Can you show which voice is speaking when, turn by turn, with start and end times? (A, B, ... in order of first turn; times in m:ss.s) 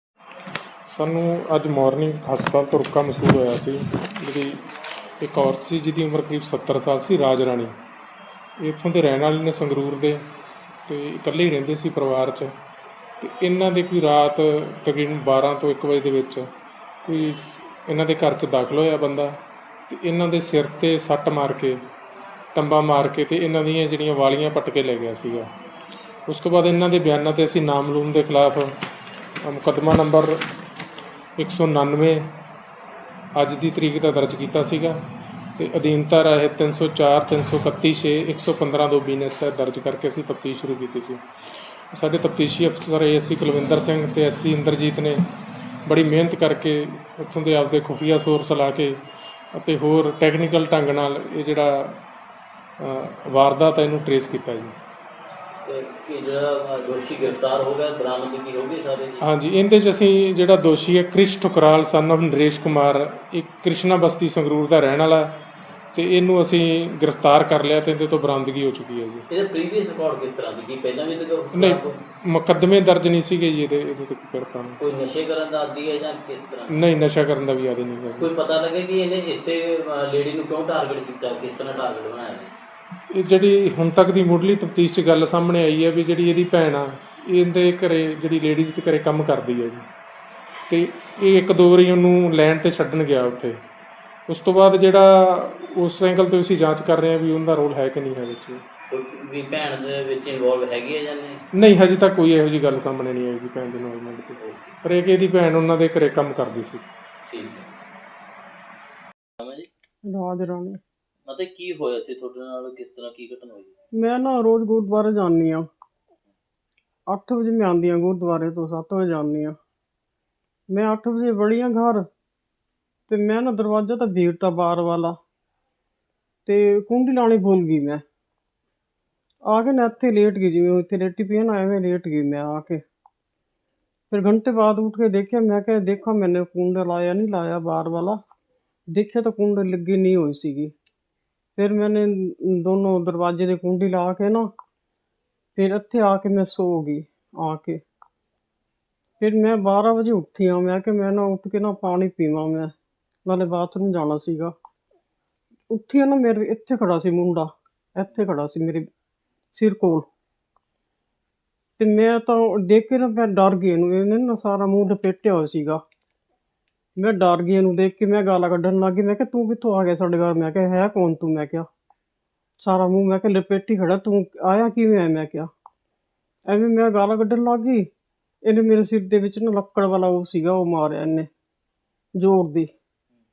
0:00.9-0:04.6 A
0:05.2-0:07.7 A
0:08.6-0:10.2 A
0:10.9-0:12.5 A
0:13.2-0:16.4 A
0:17.0-0:19.3 A
0:19.9-0:21.8 A
0:22.5-0:25.5 A
0:26.3-0:28.7 A
0:29.4-0:30.4 A
0:31.4-0:32.4 A
0:33.4-0:35.0 A
0:35.6-0:41.2 A
0:41.9-0:45.2 A
0:45.8-0:49.0 A
0:49.5-0:52.0 A
0:52.8-0:54.7 A
0:55.6-0:59.2 B
0:59.2-1:05.4 A
1:05.9-1:09.2 A
1:09.3-1:11.9 B
1:11.5-1:14.8 A
1:14.8-1:16.7 B
1:16.8-1:18.3 A
1:18.2-1:22.5 B
1:23.1-1:29.8 A
1:30.7-1:33.6 A
1:34.3-1:38.6 A
1:38.9-1:41.4 B
1:41.6-1:46.8 A
1:44.4-1:44.7 B
1:47.3-1:47.7 B
1:49.4-1:49.7 B
1:50.0-1:50.8 C
1:51.2-1:53.7 B
1:53.9-1:55.6 C
1:57.1-1:59.6 C
2:00.7-2:02.0 C
2:03.1-2:05.2 C
2:06.4-2:08.0 C
2:09.5-2:12.8 C
2:14.1-2:18.2 C
2:18.9-2:20.7 C
2:21.6-2:24.5 C
2:25.6-2:27.8 C
2:29.2-2:32.7 C
2:33.2-2:34.5 C
2:35.7-2:38.8 C
2:39.5-2:40.1 C
2:41.8-2:45.8 C
2:47.0-2:51.7 C
2:52.6-2:55.5 C
2:56.5-2:57.9 C
2:58.4-3:01.3 C
3:02.2-3:02.7 C